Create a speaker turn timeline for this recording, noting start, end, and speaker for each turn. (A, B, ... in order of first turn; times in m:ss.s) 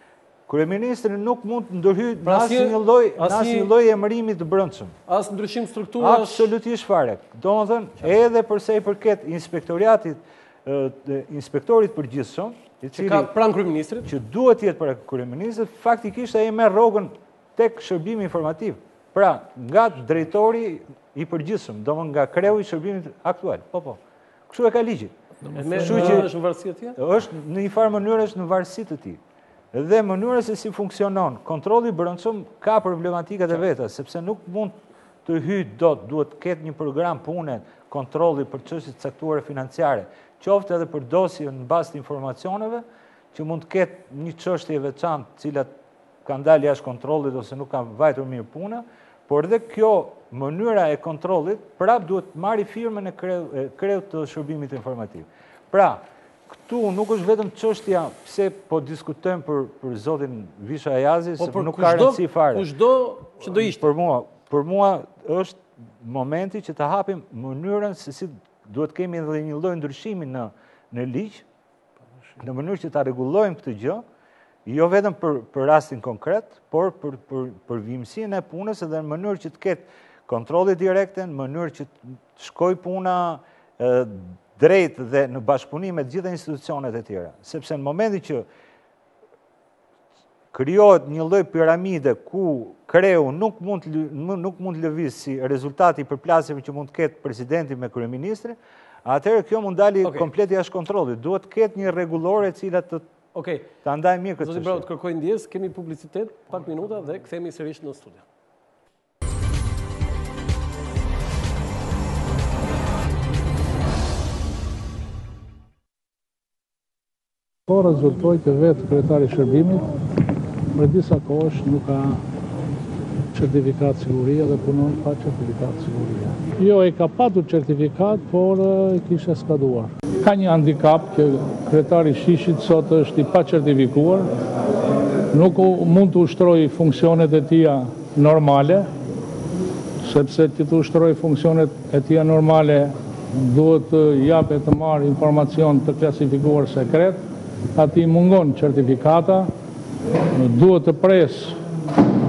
0:00.5-0:05.0 A
0:02.2-0:03.7 B
0:05.1-0:06.5 B
0:06.0-0:13.3 A
0:12.9-0:14.1 B
0:14.0-0:25.1 A
0:25.4-0:26.3 C
0:25.6-0:27.0 B
0:25.8-0:26.3 A
0:27.0-0:29.2 A
0:29.7-0:45.7 A
0:46.2-1:02.7 A
1:01.4-1:03.9 B
1:03.4-1:11.4 A
1:12.4-1:14.0 A
1:14.6-1:28.4 A
1:30.5-1:43.1 A
1:40.0-1:40.3 B
1:43.3-1:43.7 B
1:43.8-1:44.9 A
1:44.4-1:48.2 B
1:57.7-1:59.8 C
2:00.7-2:02.2 C
2:03.3-2:14.3 C
2:15.3-2:18.9 C
2:20.0-2:27.2 C
2:27.7-2:29.5 C
2:30.3-2:31.6 C